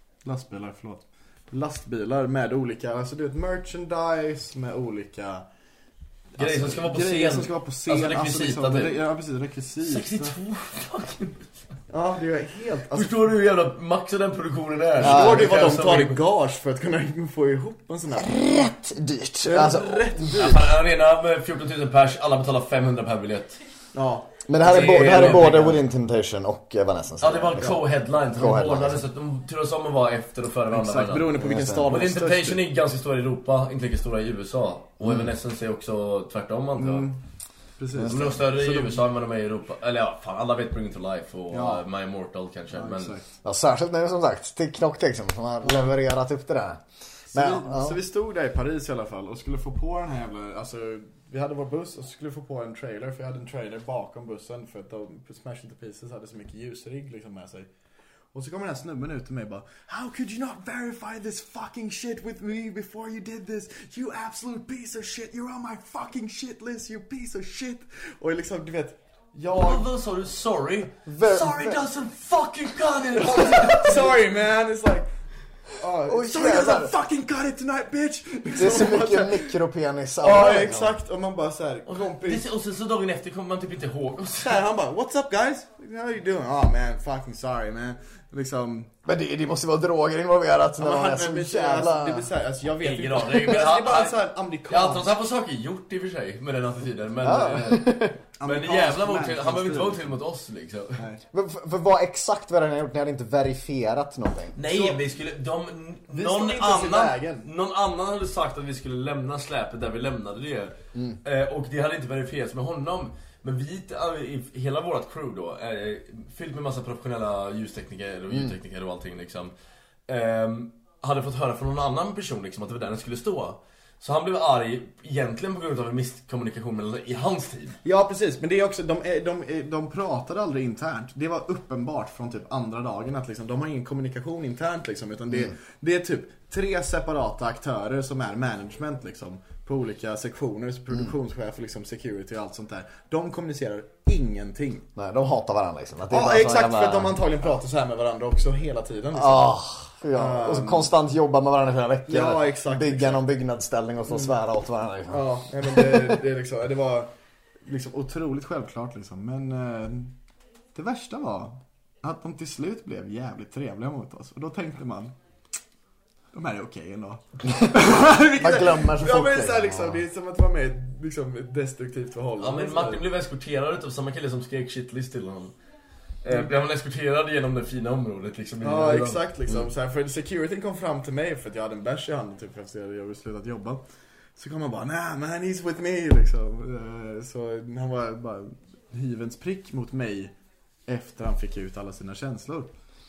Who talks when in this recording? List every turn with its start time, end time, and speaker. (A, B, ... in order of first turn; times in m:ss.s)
0:00.2-0:05.4 A
0:06.3-0:10.3 A
0:06.4-0:09.0 B
0:09.8-0:11.4 B
0:11.9-0:13.3 A
0:12.9-0:16.2 B
0:15.0-0:18.5 A
0:15.0-0:15.5 C
0:18.2-0:20.2 C
0:19.4-0:20.7 A
0:20.3-0:23.6 B
0:23.9-0:24.4 A
0:24.5-0:27.8 C
0:24.6-0:25.8 B
0:27.2-0:31.4 B
0:28.3-0:29.1 C
0:30.7-0:32.6 A
0:31.4-0:31.9 C
0:31.9-0:37.1 B
0:36.8-0:37.2 A
0:37.8-0:39.0 A
0:37.9-0:38.3 C
0:38.0-0:43.2 B
0:41.5-0:41.8 A
0:42.7-0:43.3 A
0:43.4-0:46.8 C
0:47.3-0:48.0 C
0:47.3-0:57.7 A
0:58.3-1:09.9 A
1:09.5-1:14.0 B
1:11.0-1:11.8 C
1:13.2-1:15.1 A
1:15.8-1:19.6 A
1:16.0-1:16.9 C
1:18.6-1:20.9 C
1:20.2-1:22.5 A
1:21.8-1:24.6 B
1:24.4-1:28.9 A
1:29.0-1:32.3 C
1:30.8-1:35.1 A
1:32.8-1:41.0 B
1:37.2-1:38.2 C
1:38.4-1:40.2 A
1:41.0-1:41.2 A
1:41.3-1:44.6 C
1:44.6-1:59.5 B
1:44.7-1:45.0 A
1:46.1-1:47.5 A
1:50.9-1:51.2 C
2:00.1-2:07.8 B
2:07.8-2:24.8 A
2:25.0-2:27.3 C
2:26.1-2:29.6 A
2:29.1-2:36.2 C
2:30.1-2:30.9 A
2:32.1-2:33.2 A
2:35.1-2:37.1 A
2:37.6-2:40.1 A
2:40.7-2:45.1 A
2:46.3-2:53.1 A
2:47.5-2:50.0 C
2:52.4-2:55.5 B
2:56.2-2:59.2 B
2:58.6-3:03.8 A
3:04.4-3:10.3 A
3:10.9-3:12.7 A